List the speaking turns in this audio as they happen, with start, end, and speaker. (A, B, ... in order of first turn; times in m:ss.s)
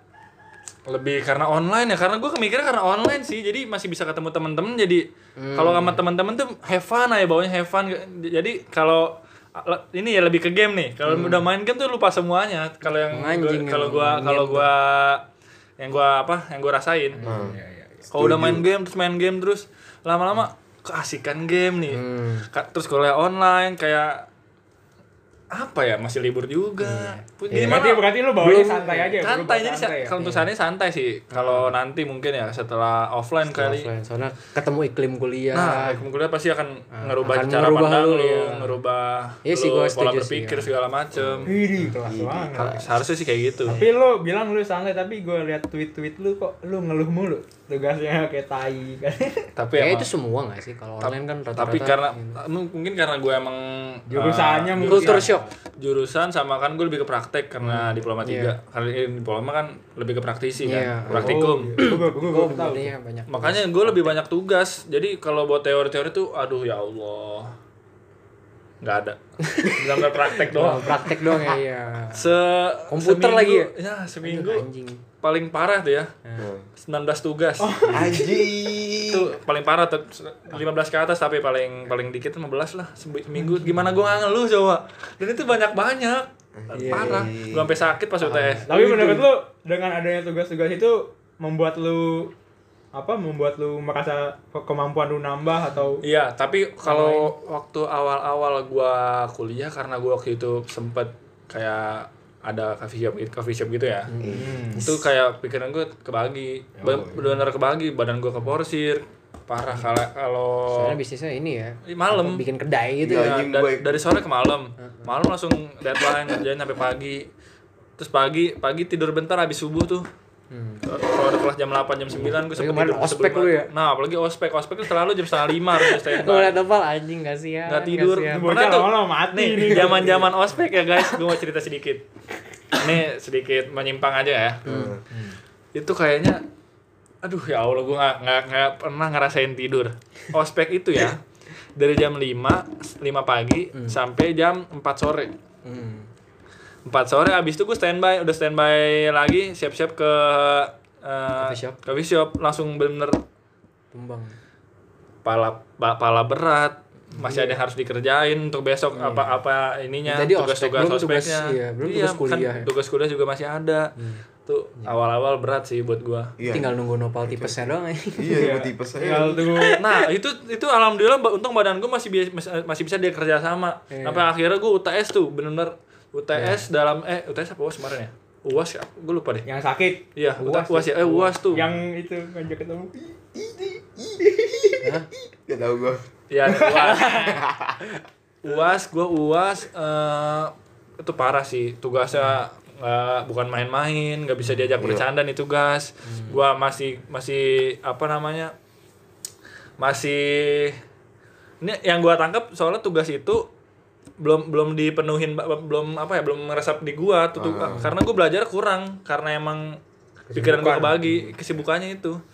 0:00.9-0:15.2 A
0:05.4-0:06.0 B
0:11.0-0:11.4 B
0:13.1-0:14.7 B
0:15.8-0:17.2 A
0:17.1-0:18.1 C
0:17.2-0:17.6 D
0:18.1-0:18.7 D
0:18.1-0:24.3 A
0:21.9-0:22.5 B
0:25.5-0:28.1 A
0:26.8-0:29.2 B
0:27.5-0:30.2 C
0:29.2-0:33.9 A
0:30.2-0:30.5 B
0:31.3-0:31.7 B
0:33.4-0:36.0 B
0:35.5-0:41.5 A
0:37.0-0:38.8 B
0:39.4-0:40.7 B
0:41.1-0:43.0 D
0:41.4-0:42.8 C
0:42.6-0:43.8 A
0:43.7-0:49.5 C
0:49.6-0:50.1 A
0:49.7-0:52.4 B
0:51.0-1:01.8 A
0:54.1-0:55.4 C
0:54.8-0:55.5 B
0:57.6-0:58.5 B
1:00.6-1:04.2 B
1:01.1-1:02.9 C
1:03.3-1:07.5 A
1:08.8-1:11.2 A
1:09.5-1:09.8 B
1:10.4-1:12.3 B
1:12.1-1:14.6 A
1:12.9-1:15.0 B
1:15.2-1:16.1 A
1:16.2-1:16.5 B
1:16.4-1:16.7 D
1:16.8-1:18.0 A
1:17.6-1:18.5 C
1:17.9-1:19.3 D
1:19.1-1:28.7 A
1:26.6-1:27.8 D
1:26.7-1:27.2 B
1:28.2-1:29.3 B
1:28.7-1:32.3 C
1:32.9-1:36.0 C
1:36.0-1:44.1 A
1:36.8-1:37.3 B
1:44.1-1:45.1 B
1:44.2-1:44.7 D
1:44.4-1:44.8 C
1:44.8-1:51.0 A
1:46.8-1:47.2 C
1:50.7-1:53.4 B
1:51.9-1:52.4 A
1:53.0-1:54.0 D
1:53.1-1:57.3 A
1:54.8-1:55.1 B
1:58.0-2:00.1 A
2:00.5-2:00.8 B
2:00.8-2:06.6 A
2:02.1-2:03.7 B
2:05.7-2:08.5 B
2:07.6-2:12.0 A
2:08.3-2:10.3 C
2:12.7-2:14.6 A
2:14.6-2:15.0 D
2:14.6-2:15.0 B
2:15.1-2:15.4 C
2:15.7-2:16.4 A
2:17.2-2:21.2 A
2:21.8-2:25.3 A
2:25.6-2:26.1 B
2:26.8-2:33.2 A
2:31.4-2:31.8 B
2:33.9-2:34.4 B
2:35.2-2:43.9 A
2:37.1-2:37.6 B
2:38.9-2:39.4 B
2:40.1-2:42.7 B
2:44.0-2:44.2 B
2:44.4-2:46.3 A
2:46.4-2:46.7 D
2:46.5-2:50.0 B
2:47.2-2:47.6 D
2:48.2-2:49.4 D
2:48.3-2:49.8 C
2:49.7-2:59.5 A
2:53.9-2:54.3 B
2:56.3-2:56.7 B
2:59.4-3:03.4 C
3:00.2-3:01.8 A
3:04.0-3:04.7 D
3:04.8-3:05.1 B
3:05.5-3:08.0 D
3:06.3-3:07.4 A
3:06.8-3:07.2 C
3:08.4-3:18.5 A
3:14.8-3:15.0 D
3:16.0-3:16.4 B
3:19.8-3:20.8 A
3:21.6-3:23.5 A
3:24.2-3:29.8 A
3:27.4-3:27.9 D
3:27.6-3:28.0 B
3:30.3-3:31.3 C
3:30.3-3:32.2 A